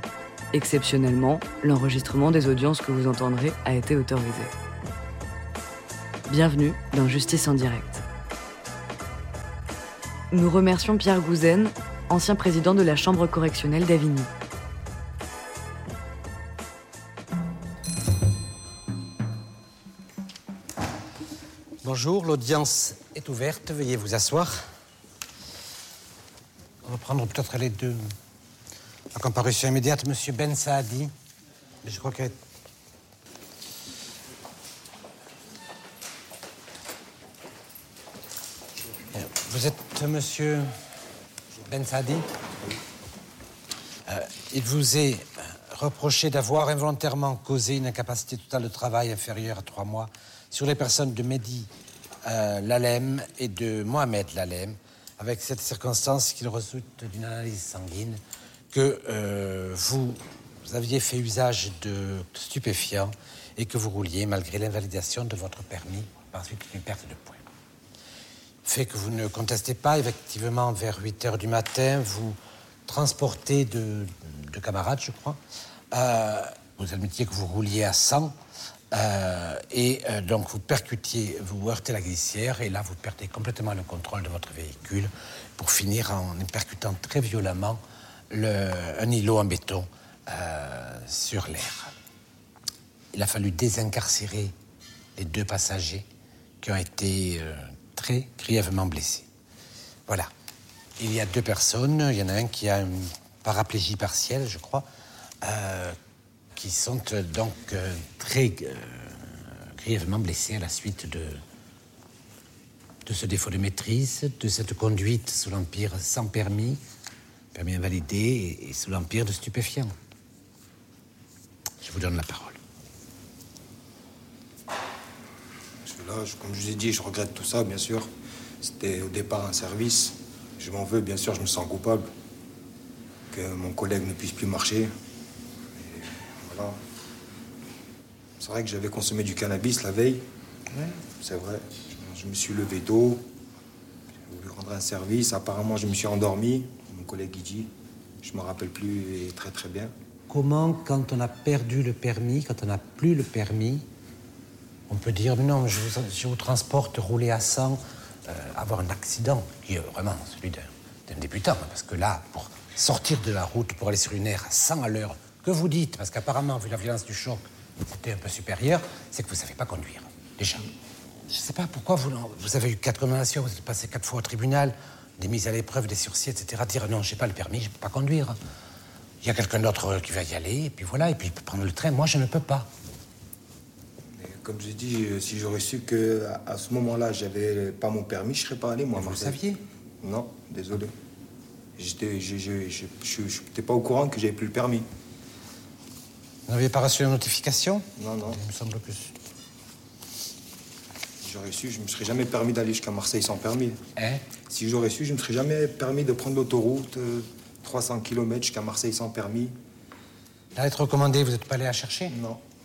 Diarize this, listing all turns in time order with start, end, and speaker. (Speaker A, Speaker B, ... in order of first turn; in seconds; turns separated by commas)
Speaker A: 0.5-4.5, Speaker A: 6.3-8.0, Speaker A: 10.3-14.3, Speaker B: 21.8-24.6, Speaker B: 26.8-28.0, Speaker B: 29.1-31.1, Speaker B: 31.8-32.3, Speaker B: 39.1-40.7, Speaker B: 41.7-42.2, Speaker B: 44.1-51.7, Speaker B: 52.2-58.2, Speaker B: 58.7-67.4, Speaker B: 68.6-75.4, Speaker B: 75.9-78.3, Speaker B: 78.9-91.9, Speaker B: 93.1-94.5, Speaker B: 95.2-96.0, Speaker B: 96.6-99.3, Speaker B: 101.0-104.8, Speaker B: 105.4-106.0, Speaker B: 106.6-111.4, Speaker B: 113.0-116.8, Speaker B: 117.5-119.9, Speaker B: 121.8-122.6, Speaker C: 125.8-128.1, Speaker C: 128.6-132.1, Speaker C: 133.3-134.9, Speaker C: 135.8-136.8, Speaker C: 138.4-143.2, Speaker C: 144.3-147.7, Speaker C: 148.2-149.9, Speaker B: 150.3-153.8, Speaker B: 154.9-170.7, Speaker B: 171.3-178.4, Speaker B: 179.2-182.7, Speaker C: 184.2-189.4, Speaker B: 189.0-189.6, Speaker C: 190.0-190.9, Speaker C: 191.8-194.8, Speaker B: 196.5-199.1, Speaker C: 198.0-198.4, Speaker C: 201.2-203.8, Speaker B: 204.0-204.3, Speaker C: 204.4-209.5, Speaker B: 210.6-212.2, Speaker C: 212.1-212.4